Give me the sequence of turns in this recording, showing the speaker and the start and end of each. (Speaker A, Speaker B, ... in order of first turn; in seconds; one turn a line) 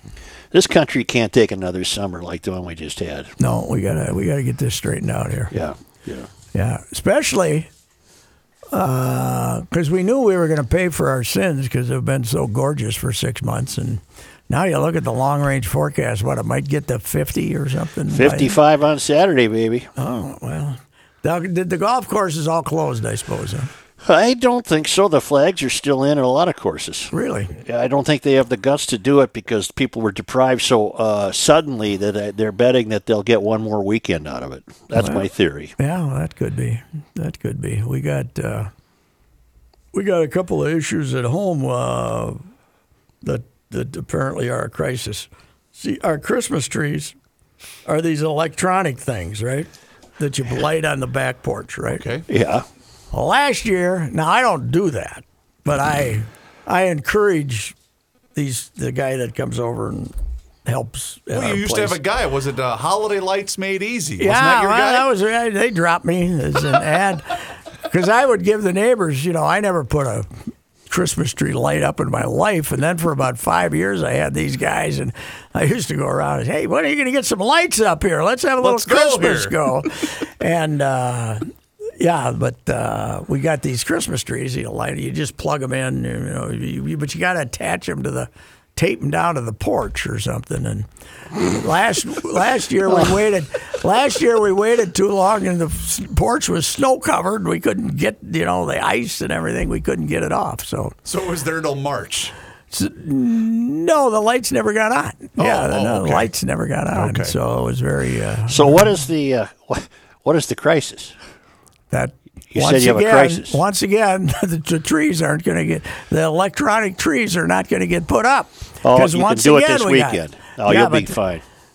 Speaker A: 0.5-3.3
Speaker B: 3.4-5.5
Speaker A: 5.5-6.3
Speaker B: 6.5-7.7
Speaker B: 8.7-18.6
Speaker A: 18.1-19.9
Speaker B: 20.0-23.7
Speaker A: 24.0-27.1
Speaker B: 27.1-27.6
Speaker A: 27.6-35.7
Speaker B: 35.0-38.7
Speaker B: 39.9-42.4
Speaker B: 43.2-47.1
Speaker B: 47.9-52.0
Speaker C: 51.9-52.2
Speaker A: 52.3-52.6
Speaker B: 53.1-57.7
Speaker B: 58.3-62.0
Speaker C: 61.3-65.1
Speaker B: 64.2-70.3
Speaker B: 70.9-81.5
Speaker C: 78.6-79.9
Speaker B: 82.0-100.9
Speaker C: 101.0-102.3
Speaker B: 102.7-108.8
Speaker C: 105.4-106.3
Speaker C: 106.9-107.3
Speaker A: 108.5-111.2
Speaker B: 111.9-121.2
Speaker A: 112.5-113.6
Speaker A: 118.8-121.4